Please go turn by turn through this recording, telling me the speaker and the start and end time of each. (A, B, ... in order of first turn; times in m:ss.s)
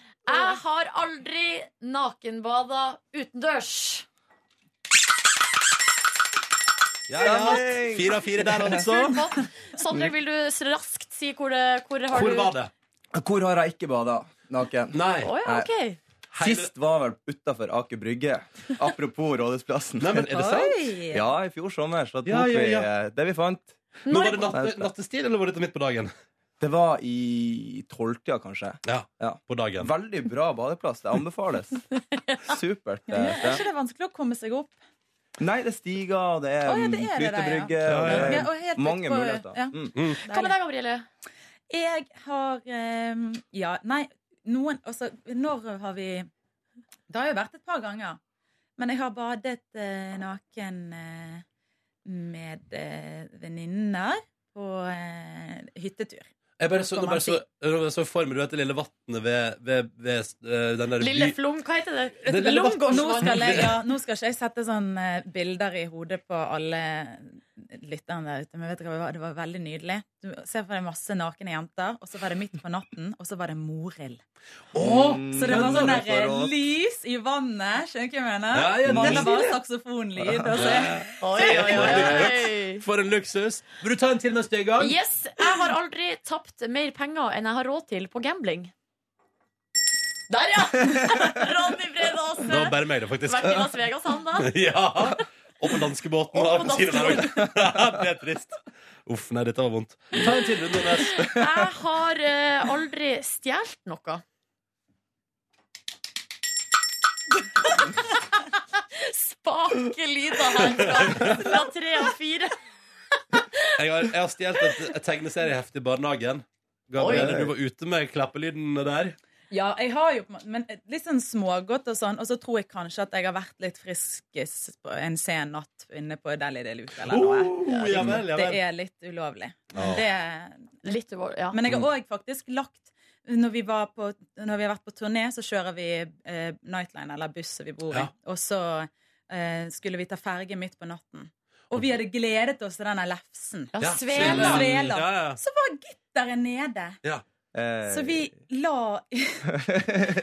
0:00.2-0:04.0 A
0:07.1-0:09.2 B
0:07.2-0:08.8 C
0:07.2-0:07.6 A
0:08.6-0:12.5 A
0:12.1-0:12.7 B
0:13.1-0:15.7 C
0:14.9-0:15.3 B
0:15.2-0:16.0 A
0:16.3-0:16.7 B
0:16.4-0:20.2 C
0:20.0-0:20.8 B
0:20.3-0:21.2 D
0:21.1-0:23.8 C
0:22.2-0:22.9 B
0:24.0-0:24.4 A
0:24.1-0:26.1 B
0:24.5-0:24.9 C
0:26.6-0:31.8 C
0:28.8-0:29.9 B
0:32.4-0:33.6 C
0:33.1-0:34.8 D
0:35.4-0:39.9 C
0:36.6-0:40.6 D
0:37.8-0:38.4 B
0:39.9-0:40.2 B
0:40.2-0:41.0 A
0:41.7-0:46.3 D
0:47.1-0:48.2 D
0:48.8-0:51.4 D
0:52.0-0:56.3 D
0:56.6-1:01.4 B
0:56.9-0:57.4 D
1:01.0-1:03.7 A
1:02.2-1:03.8 B
1:02.4-1:14.2 D
1:14.7-1:16.0 B
1:14.8-1:16.5 C
1:15.3-1:22.0 D
1:18.5-1:19.6 B
1:18.9-1:19.4 C
1:20.5-1:25.0 B
1:21.2-1:22.8 A
1:24.8-1:28.7 A
1:30.3-1:34.5 A
1:32.5-1:33.7 B
1:34.4-1:41.3 B
1:36.3-1:37.5 A
1:41.1-1:44.2 A
1:48.9-1:52.5 A
1:51.0-1:51.3 B
1:53.3-1:53.7 A
1:53.8-1:59.2 B
1:57.0-1:57.4 A
1:57.1-1:57.4 C
1:59.5-2:10.9 D
2:07.0-2:08.6 B
2:07.7-2:08.0 A
2:10.8-2:11.6 A
2:11.5-2:27.0 D
2:23.7-2:24.9 A
2:23.8-2:25.4 B
2:27.5-2:28.3 C
2:27.8-2:29.5 D
2:29.7-2:30.0 C